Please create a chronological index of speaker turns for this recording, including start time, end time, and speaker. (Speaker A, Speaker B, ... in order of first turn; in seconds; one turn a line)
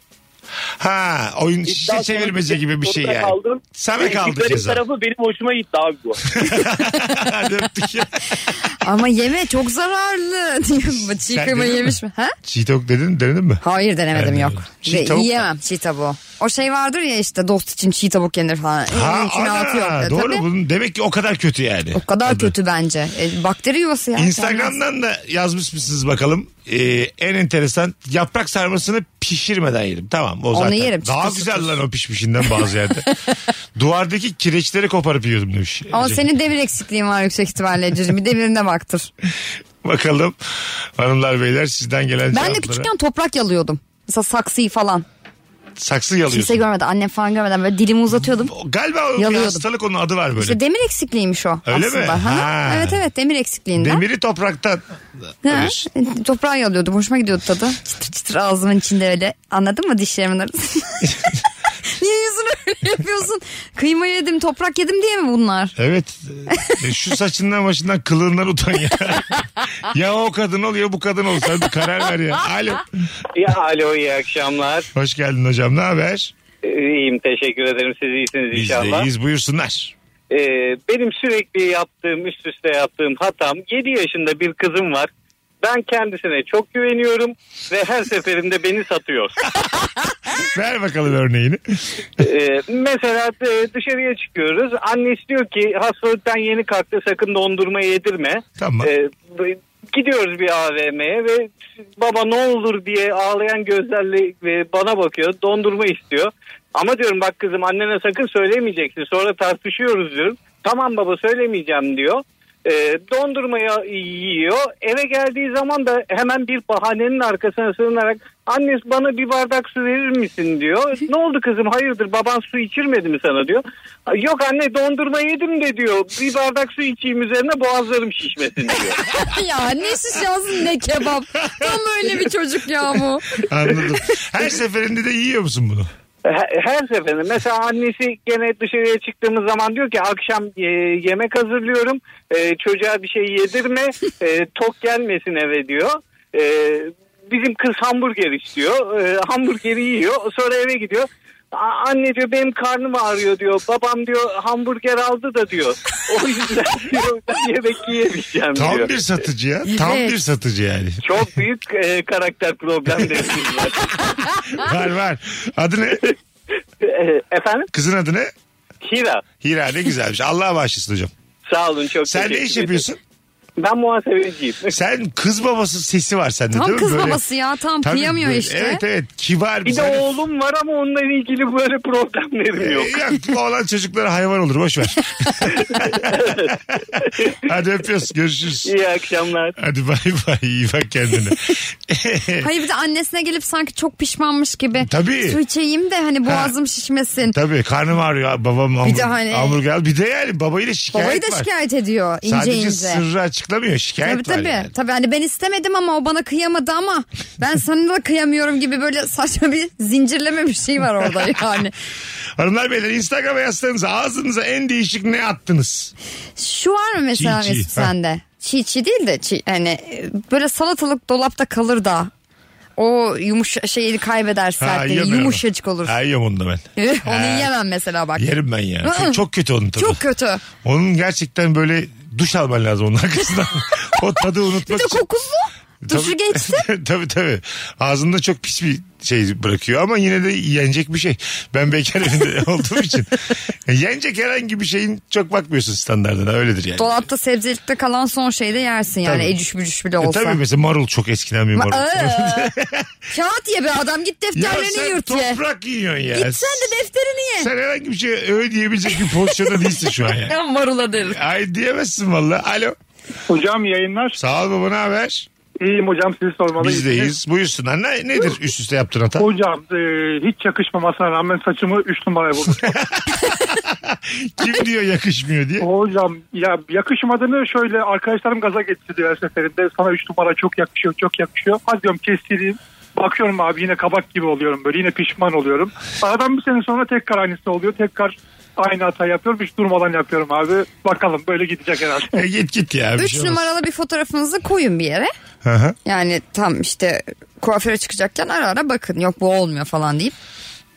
Speaker A: 0.8-4.8
Speaker B: 1.7-6.2
Speaker A: 6.3-8.2
Speaker C: 8.8-12.3
Speaker A: 11.3-15.5
Speaker C: 13.6-20.4
Speaker A: 18.9-22.5
Speaker C: 21.9-24.8
Speaker A: 24.1-33.1
Speaker C: 30.5-31.7
Speaker A: 33.7-36.3
Speaker C: 35.9-39.1
Speaker A: 39.8-40.4
Speaker A: 41.0-42.9
Speaker C: 42.3-45.0
Speaker A: 45.8-46.6
Speaker C: 46.3-48.5
Speaker A: 48.4-50.6
Speaker C: 49.2-49.6
Speaker C: 50.4-54.0
Speaker A: 51.6-53.0
Speaker A: 53.8-54.8
Speaker A: 55.4-55.9
Speaker C: 55.4-61.1
Speaker C: 62.0-65.8
Speaker A: 65.8-72.9
Speaker D: 73.3-74.9
Speaker A: 74.9-76.3
Speaker D: 76.6-79.1
Speaker A: 78.5-79.9
Speaker D: 80.3-85.1
Speaker D: 85.6-89.3
Speaker A: 90.3-92.0
Speaker D: 92.2-129.0
Speaker A: 98.6-98.9
Speaker C: 129.1-133.4
Speaker A: 133.4-135.9
Speaker D: 136.2-159.1
Speaker A: 158.5-161.0
Speaker C: 159.7-160.2
Speaker D: 161.0-164.2
Speaker A: 164.5-166.0
Speaker D: 166.8-167.7
Speaker A: 167.7-168.3
Speaker D: 168.8-169.2
Speaker A: 169.4-171.1
Speaker D: 171.5-172.9
Speaker A: 172.1-173.0
Speaker D: 173.6-174.8
Speaker A: 174.7-177.2
Speaker C: 176.5-178.8
Speaker A: 177.8-180.0
Speaker D: 179.6-183.1
Speaker A: 182.6-186.1
Speaker D: 185.7-187.3
Speaker A: 187.4-188.7
Speaker D: 188.6-189.6
Speaker A: 189.6-192.5
Speaker C: 192.4-197.3
Speaker A: 194.8-195.4
Speaker A: 196.2-196.5
Speaker A: 197.3-201.5
Speaker C: 198.8-199.6
Speaker C: 200.9-203.0
Speaker A: 202.2-204.7
Speaker C: 204.0-211.7
Speaker A: 212.4-215.9
Speaker C: 216.4-222.1
Speaker A: 217.1-217.9
Speaker C: 222.8-225.9
Speaker A: 224.6-227.5
Speaker C: 226.8-228.3
Speaker A: 228.2-230.0
Speaker C: 228.8-229.2
Speaker C: 229.8-230.4
Speaker A: 230.6-235.0
Speaker C: 234.7-236.7
Speaker A: 235.8-246.9
Speaker C: 246.8-250.4
Speaker A: 249.0-249.3
Speaker A: 250.0-252.9
Speaker C: 251.6-252.5
Speaker C: 253.1-255.4
Speaker A: 254.3-256.8
Speaker C: 256.1-257.5
Speaker A: 257.4-260.4
Speaker C: 259.2-261.2
Speaker A: 261.0-262.8
Speaker E: 263.3-264.2
Speaker A: 264.1-265.3
Speaker E: 265.6-267.1
Speaker A: 266.6-269.3
Speaker E: 269.2-272.7
Speaker A: 272.6-275.7
Speaker E: 275.6-292.1
Speaker A: 292.1-293.5
Speaker C: 293.0-295.1
Speaker A: 295.4-295.8
Speaker C: 295.8-300.1